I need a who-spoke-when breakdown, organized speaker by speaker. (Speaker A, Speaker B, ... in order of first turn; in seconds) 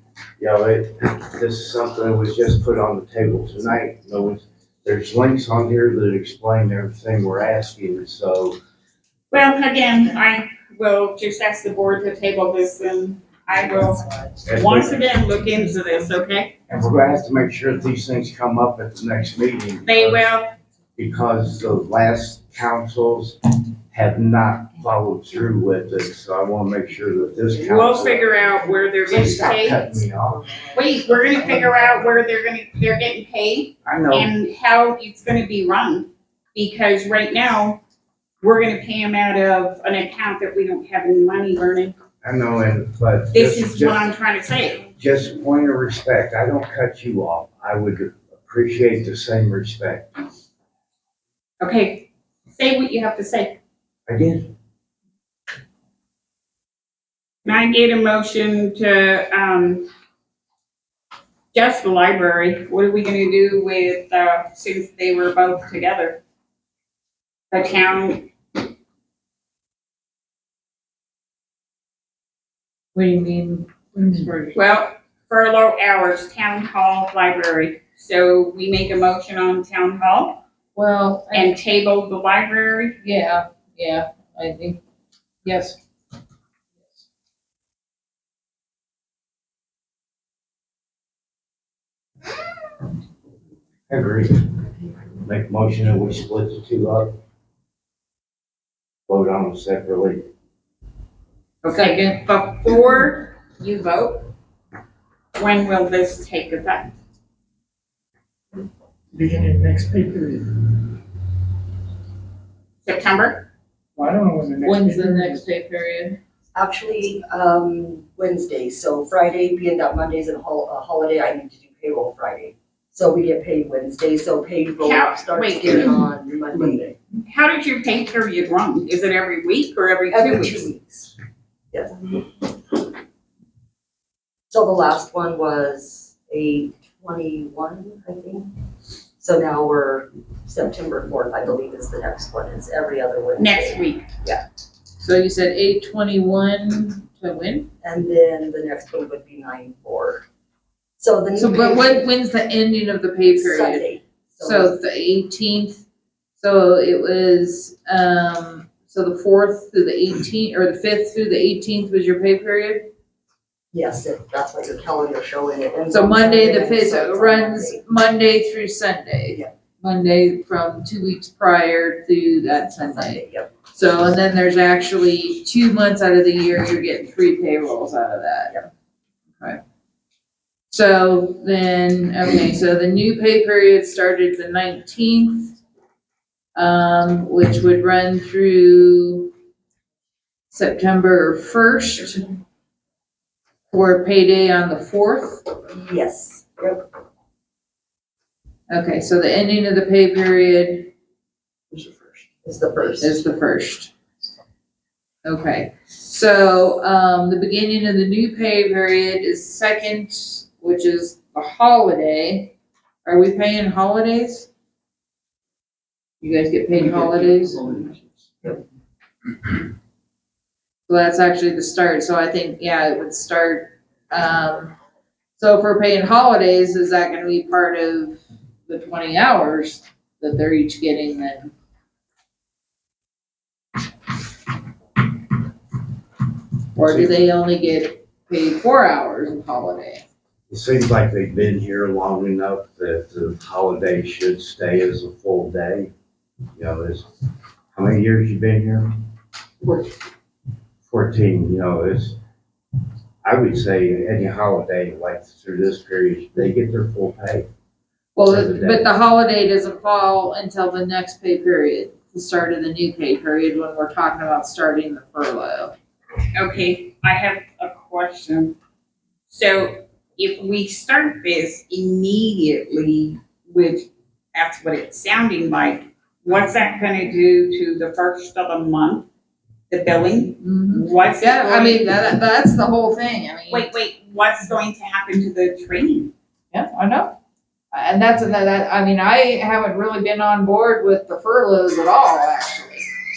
Speaker A: 0.4-8.5, 14.4-15.1, 16.7-20.3, 20.9-28.3, 29.1-30.4, 33.8-34.3, 42.2-44.1, 44.9-50.2, 54.1-54.5, 93.9-94.4, 95.2-97.1, 99.1-100.2, 236.8-237.1, 240.5-245.9, 246.6-247.1, 247.7-248.9, 250.8-252.2, 253.2-257.5, 258.2-258.9
Speaker B: 9.3-16.6, 19.8-20.5, 27.6-30.0, 30.7-37.8, 38.4-42.0, 43.3-44.9, 51.6-53.6, 57.4-59.9, 61.5-66.2, 67.5-68.3, 74.5-80.4, 81.3-83.0, 101.6-104.3, 105.3-107.0, 112.8-113.5, 124.8-126.1, 127.2-130.7, 143.4-144.1, 266.3-268.6, 269.3-279.1, 279.7-282.1, 283.5-286.1
Speaker C: 72.9-74.5, 80.7-81.6, 83.0-84.8, 85.4-85.8, 101.7-102.2, 114.6-116.2, 145.0-147.7, 151.3-153.9, 154.4-155.8, 156.4-162.9, 165.9-178.7, 180.7-185.6, 186.5-189.3, 190.5-192.2, 193.7-195.4, 198.7-200.9, 203.0-203.9, 205.2-212.5, 213.0-214.5, 216.2-217.7, 220.9-224.7, 225.4-231.5, 236.7-240.0, 258.1-265.7, 280.4-283.7, 286.5-287.1, 287.7-292.9
Speaker D: 109.1-110.9, 114.0-115.4
Speaker E: 116.5-126.9, 130.1-131.1, 131.7-132.5, 134.5-138.5, 139.2-144.4, 147.8-150.2, 151.0-152.1, 153.3-154.8, 163.7-167.8, 172.9-173.5, 195.7-196.8, 202.4-203.2